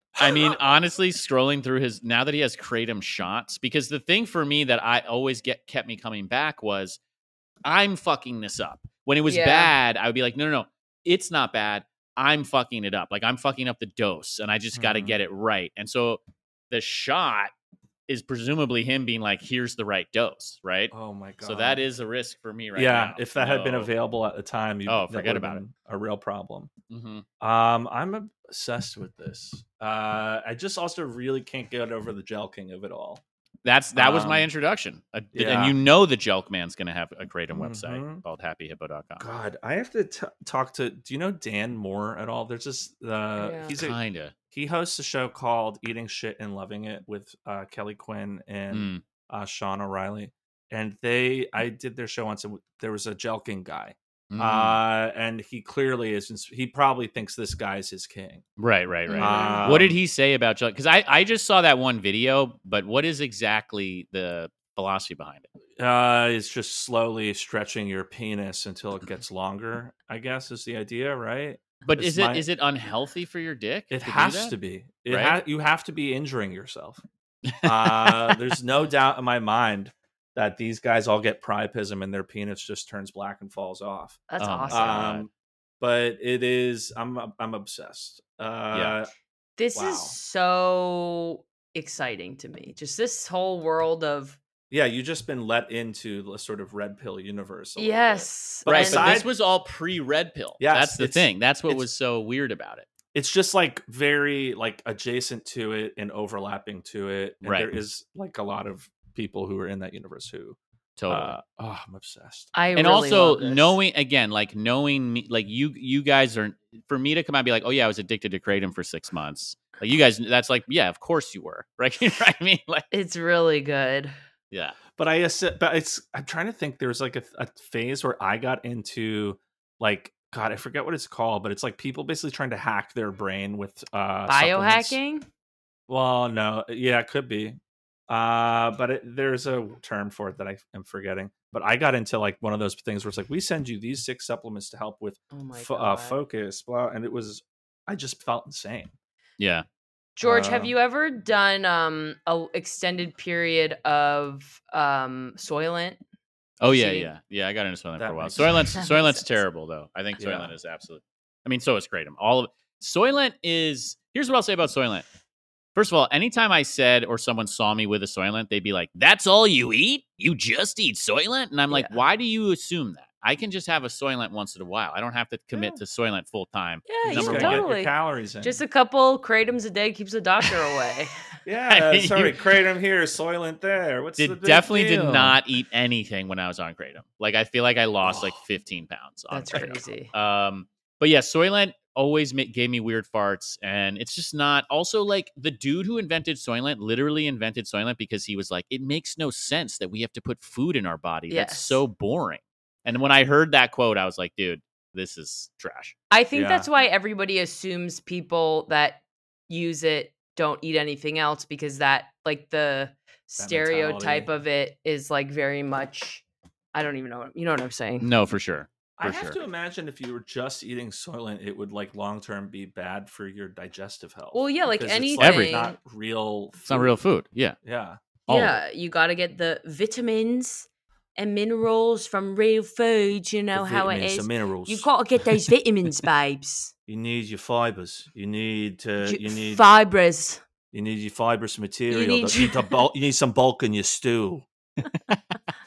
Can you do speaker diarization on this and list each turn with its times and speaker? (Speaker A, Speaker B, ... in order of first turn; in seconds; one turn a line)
Speaker A: 0.2-0.6
Speaker B: 0.2-7.0
Speaker B: 7.7-17.5
Speaker C: 9.3-9.7
Speaker A: 14.7-15.2
Speaker B: 18.1-23.9
Speaker A: 20.9-21.8
Speaker A: 22.8-26.7
Speaker B: 24.9-25.6
Speaker B: 26.9-27.2
Speaker A: 27.4-33.2
Speaker B: 33.6-39.3
Speaker A: 34.0-34.5
Speaker A: 35.3-35.8
Speaker A: 37.5-38.2
Speaker A: 39.2-44.0
Speaker C: 43.4-43.8
Speaker B: 43.8-44.3
Speaker A: 44.5-58.4
Speaker B: 48.7-49.0
Speaker B: 54.3-54.8
Speaker B: 58.6-65.5
Speaker C: 59.1-59.8
Speaker A: 59.2-60.0
Speaker A: 65.8-72.5
Speaker B: 71.9-74.5
Speaker A: 73.9-77.0
Speaker B: 75.1-75.4
Speaker B: 77.5-78.5
Speaker A: 77.6-89.1
Speaker C: 84.3-85.1
Speaker B: 84.4-85.3
Speaker C: 89.6-94.4
Speaker A: 89.8-90.2
Speaker A: 94.7-99.3
Speaker C: 97.8-99.2
Speaker B: 98.7-102.9
Speaker A: 100.6-101.8
Speaker A: 103.1-110.6
Speaker B: 107.4-107.7
Speaker B: 111.0-111.4
Speaker A: 111.1-112.9
Speaker C: 112.5-113.8
Speaker B: 112.8-122.8
Speaker C: 122.9-124.1
Speaker B: 124.5-124.8
Speaker A: 125.0-135.0
Speaker C: 134.3-135.2
Speaker A: 135.9-148.9
Speaker C: 145.3-146.2
Speaker B: 149.4-149.7
Speaker C: 150.2-156.0
Speaker A: 150.2-150.7
Speaker B: 156.6-165.1
Speaker C: 156.7-157.1
Speaker A: 158.0-158.8
Speaker C: 158.8-159.4
Speaker A: 160.2-160.5
Speaker B: 165.8-177.7
Speaker C: 171.7-172.0
Speaker A: 175.5-175.8
Speaker C: 176.9-181.1
Speaker A: 177.1-178.6
Speaker A: 181.4-185.4
Speaker B: 181.7-182.4
Speaker B: 184.2-205.9
Speaker A: 188.0-188.4
Speaker C: 189.3-190.1
Speaker C: 201.3-201.8
Speaker C: 206.1-218.1
Speaker A: 206.3-206.7
Speaker A: 213.4-214.3
Speaker B: 218.0-219.4
Speaker A: 219.0-227.0
Speaker C: 224.3-225.8
Speaker B: 225.2-225.6
Speaker B: 226.7-227.6
Speaker A: 227.6-228.0
Speaker B: 228.3-228.6
Speaker C: 228.3-236.7
Speaker A: 233.5-234.9
Speaker A: 236.9-239.6
Speaker C: 239.0-240.4
Speaker A: 240.7-244.5
Speaker C: 241.9-242.8